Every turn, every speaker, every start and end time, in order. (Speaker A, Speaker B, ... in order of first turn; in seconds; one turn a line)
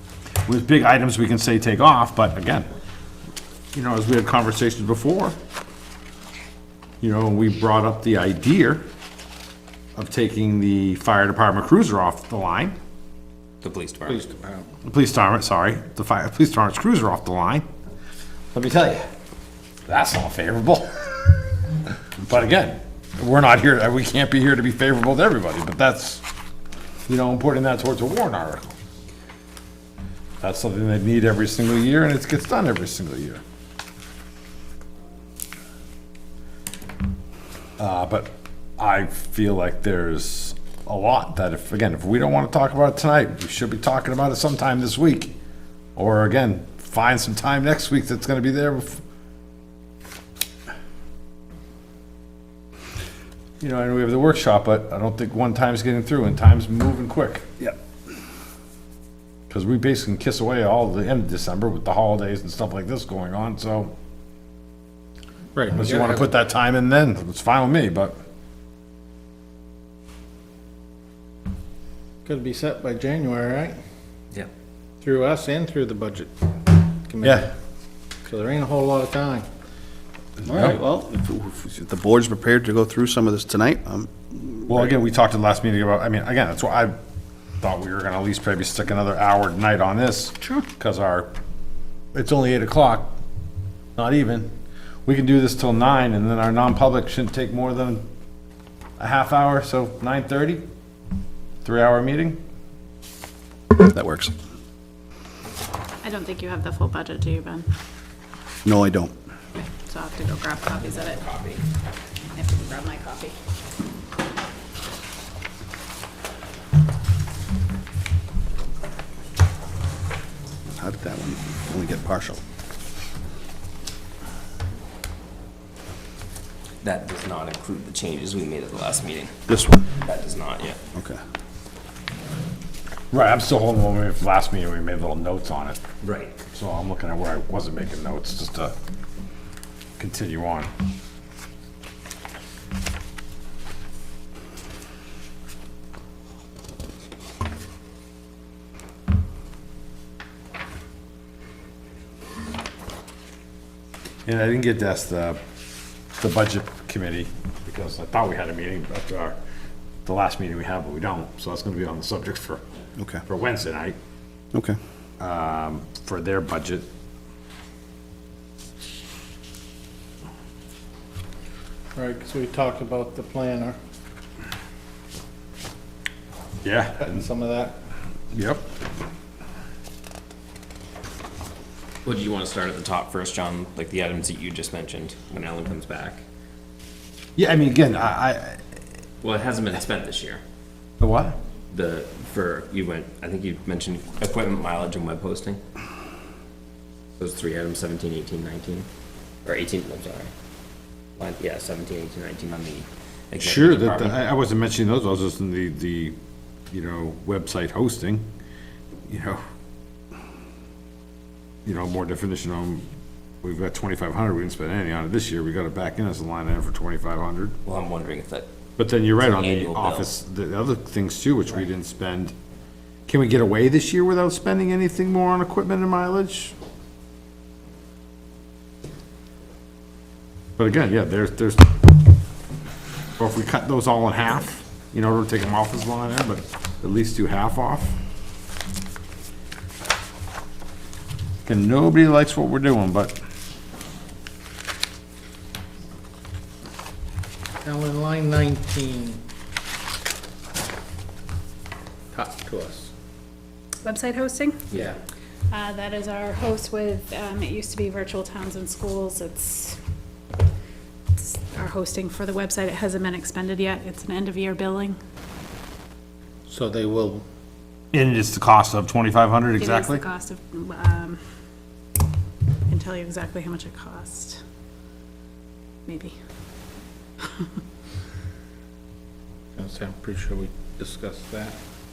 Speaker A: 0.5-2.7
Speaker A: 3.7-5.4
Speaker A: 7.0-8.8
Speaker A: 10.0-12.8
Speaker B: 13.6-14.2
Speaker C: 14.1-14.7
Speaker A: 14.8-17.7
Speaker A: 18.5-19.1
Speaker A: 19.9-21.1
Speaker A: 22.2-26.2
Speaker A: 27.1-28.8
Speaker A: 30.4-33.4
Speaker A: 37.8-45.3
Speaker A: 46.0-49.0
Speaker A: 53.6-57.7
Speaker A: 59.5-63.9
Speaker C: 65.5-66.3
Speaker A: 65.8-68.2
Speaker C: 72.2-73.8
Speaker C: 75.0-76.3
Speaker C: 77.1-77.5
Speaker A: 77.2-77.5
Speaker C: 78.2-79.5
Speaker A: 80.4-80.8
Speaker D: 80.5-84.9
Speaker A: 84.7-87.0
Speaker A: 87.6-91.3
Speaker A: 92.1-93.2
Speaker A: 94.0-94.5
Speaker A: 95.1-98.0
Speaker A: 99.0-100.6
Speaker A: 101.6-102.4
Speaker D: 103.7-104.3
Speaker E: 106.0-107.7
Speaker D: 108.7-109.1
Speaker E: 109.6-111.2
Speaker B: 110.8-111.6
Speaker E: 112.3-113.3
Speaker D: 120.8-122.4
Speaker B: 126.8-129.4
Speaker D: 129.5-129.9
Speaker B: 130.0-130.8
Speaker D: 130.9-131.2
Speaker A: 133.1-135.8
Speaker B: 136.0-136.4
Speaker A: 136.5-138.8
Speaker A: 140.0-140.7
Speaker A: 154.3-155.4
Speaker A: 156.2-159.4
Speaker A: 160.1-162.6
Speaker A: 163.2-164.0
Speaker D: 164.5-164.8
Speaker A: 165.2-166.9
Speaker C: 171.9-173.8
Speaker A: 176.6-177.2
Speaker C: 177.0-177.8
Speaker A: 178.3-178.6
Speaker B: 182.1-186.2
Speaker A: 187.4-188.6
Speaker B: 189.2-190.4
Speaker A: 191.0-191.4
Speaker B: 191.7-195.6
Speaker B: 197.2-198.9
Speaker B: 199.4-200.3
Speaker B: 201.2-204.2
Speaker A: 203.4-206.2
Speaker A: 206.7-208.3
Speaker A: 209.1-209.4
Speaker A: 211.7-212.8
Speaker A: 213.4-217.6
Speaker B: 217.7-218.5
Speaker A: 218.8-222.3
Speaker B: 219.2-220.1
Speaker A: 223.1-226.6
Speaker A: 230.6-231.7
Speaker A: 233.2-237.9
Speaker A: 241.4-243.2
Speaker C: 247.6-249.2
Speaker C: 252.1-252.9
Speaker E: 253.8-254.7
Speaker B: 254.7-255.0
Speaker E: 255.5-259.8
Speaker E: 261.2-265.0
Speaker C: 266.5-267.2
Speaker A: 267.9-270.0
Speaker E: 269.6-271.2
Speaker E: 272.7-274.4
Speaker E: 275.9-276.1
Speaker E: 277.2-277.5
Speaker C: 279.6-281.6